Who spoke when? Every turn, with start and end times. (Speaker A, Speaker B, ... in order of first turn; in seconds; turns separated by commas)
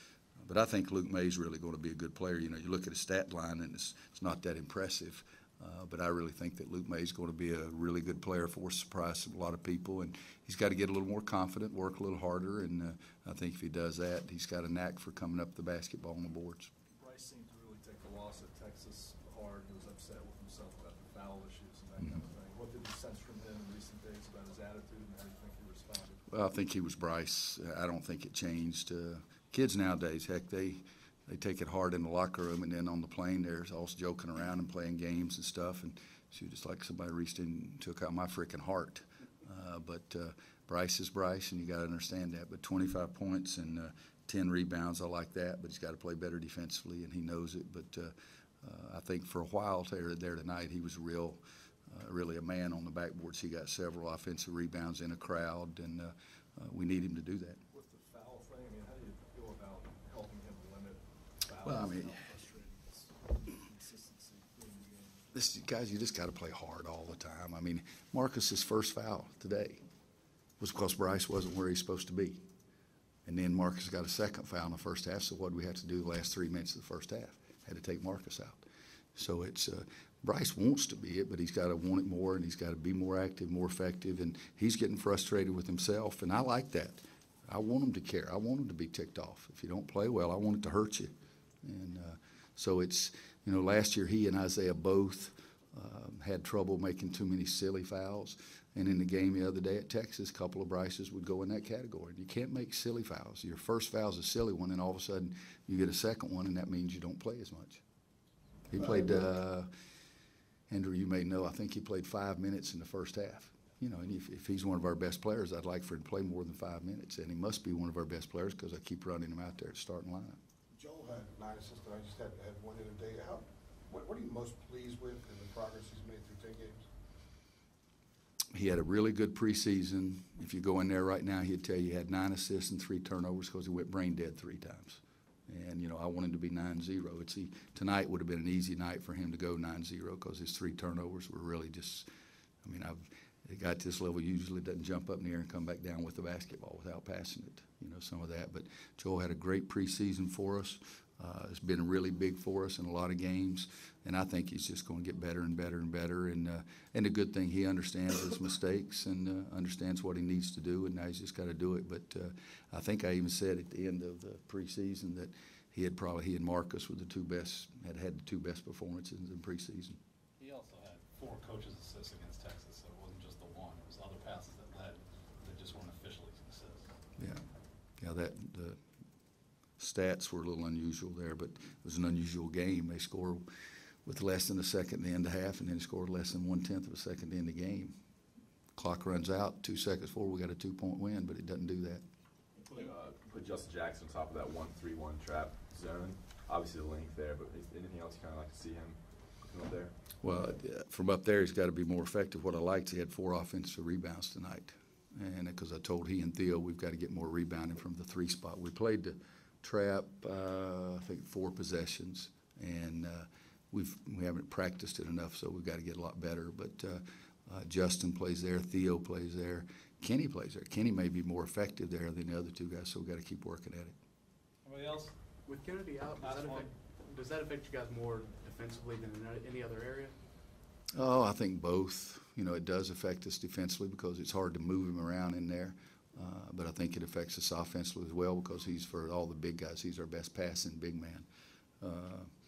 Speaker A: 0.4-16.7, Speaker B: 16.9-26.2, Speaker A: 26.3-57.6, Speaker B: 57.7-65.5, Speaker A: 61.6-62.2, Speaker A: 65.3-69.8, Speaker A: 70.6-72.4, Speaker A: 73.2-78.6, Speaker A: 79.1-91.1, Speaker A: 91.6-107.8, Speaker A: 108.7-109.7, Speaker A: 110.7-120.4, Speaker C: 120.7-126.8, Speaker A: 128.5-142.1, Speaker A: 142.6-170.0, Speaker D: 170.4-176.9, Speaker A: 177.2-177.4, Speaker A: 178.0-178.8, Speaker A: 179.8-183.4, Speaker A: 184.0-187.9, Speaker A: 188.7-192.0, Speaker E: 192.7-199.9, Speaker A: 200.2-223.9, Speaker D: 224.6-225.1, Speaker F: 225.4-230.1, Speaker D: 226.2-226.7, Speaker A: 230.9-241.2, Speaker A: 241.8-242.3